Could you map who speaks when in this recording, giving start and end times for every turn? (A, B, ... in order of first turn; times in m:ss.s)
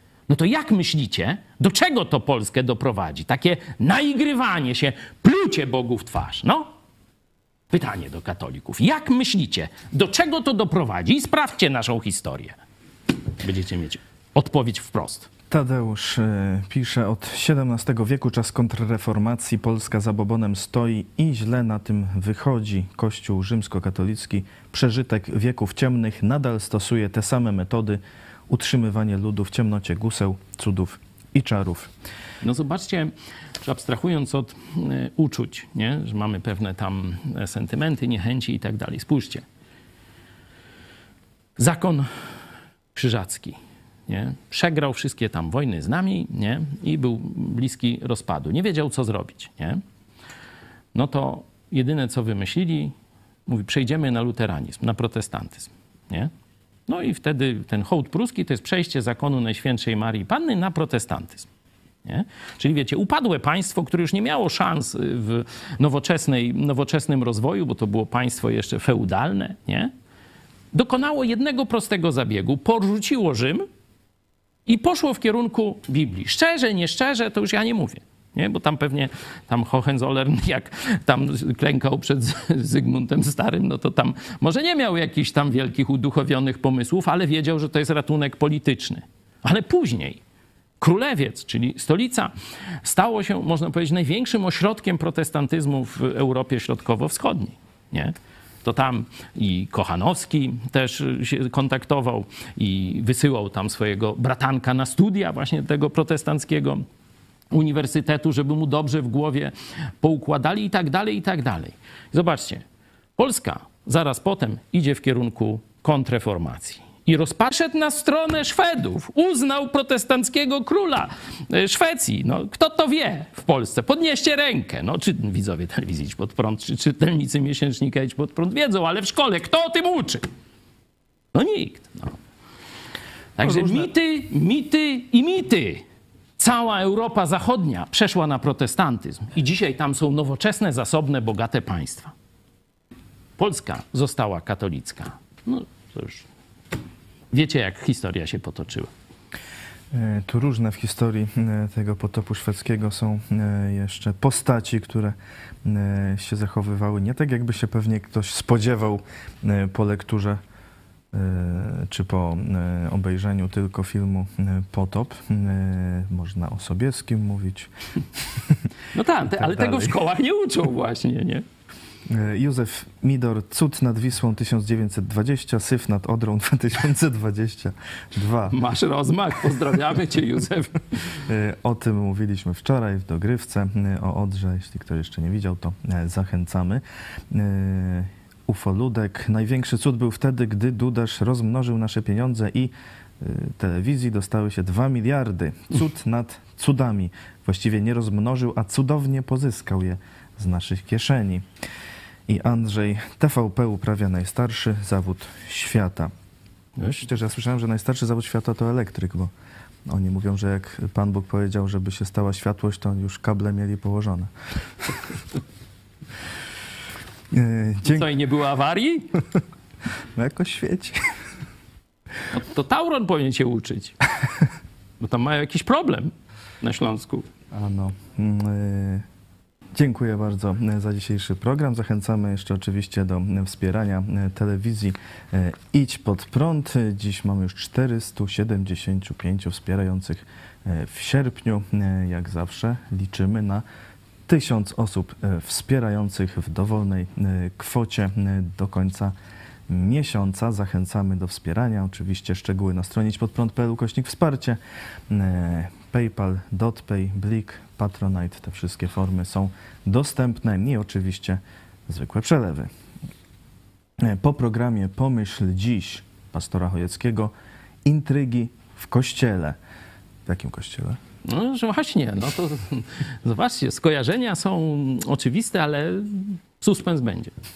0:00.3-0:06.7 A
0:07.7-0:12.6 A
0:13.4-0:15.3 A
0:15.5-0:31.9 B
0:32.4-0:39.4 A
0:41.6-0:42.3 A
0:42.9-0:49.8 A
0:50.9-0:52.9 A
0:53.5-0:56.3 A
0:56.9-1:01.5 A
1:02.0-1:09.9 A
1:10.7-1:13.6 A
1:14.7-1:30.2 A
1:30.8-1:32.3 A
1:32.8-1:46.8 A
1:47.5-1:52.6 A
1:53.2-2:10.2 A
2:11.3-2:12.2 A
2:13.4-2:15.8 A
2:13.4-2:13.9 B
2:16.4-2:22.1 A
2:23.4-2:26.3 A
2:27.3-2:28.9 A
2:29.9-2:40.4 B
2:41.1-2:47.7 B
2:48.3-2:48.6 B
2:48.9-2:51.4 A
2:49.4-2:50.0 B
2:52.0-2:58.6 B
2:58.5-3:01.0 A
3:01.2-3:21.4 B
3:22.3-3:26.1 B
3:26.8-3:27.1 A
3:26.8-3:29.3 B
3:29.8-3:34.3 B
3:37.3-3:38.1 B
3:37.8-3:39.1 A
3:40.1-3:41.1 B
3:42.3-3:43.9 A
3:45.0-3:47.2 A
3:47.5-3:49.0 B
3:49.7-4:03.6 B
4:04.3-4:09.1 B
4:09.7-4:22.7 B
4:24.0-4:27.3 B
4:27.8-4:29.6 B
4:30.2-4:31.0 B
4:31.2-4:37.3 A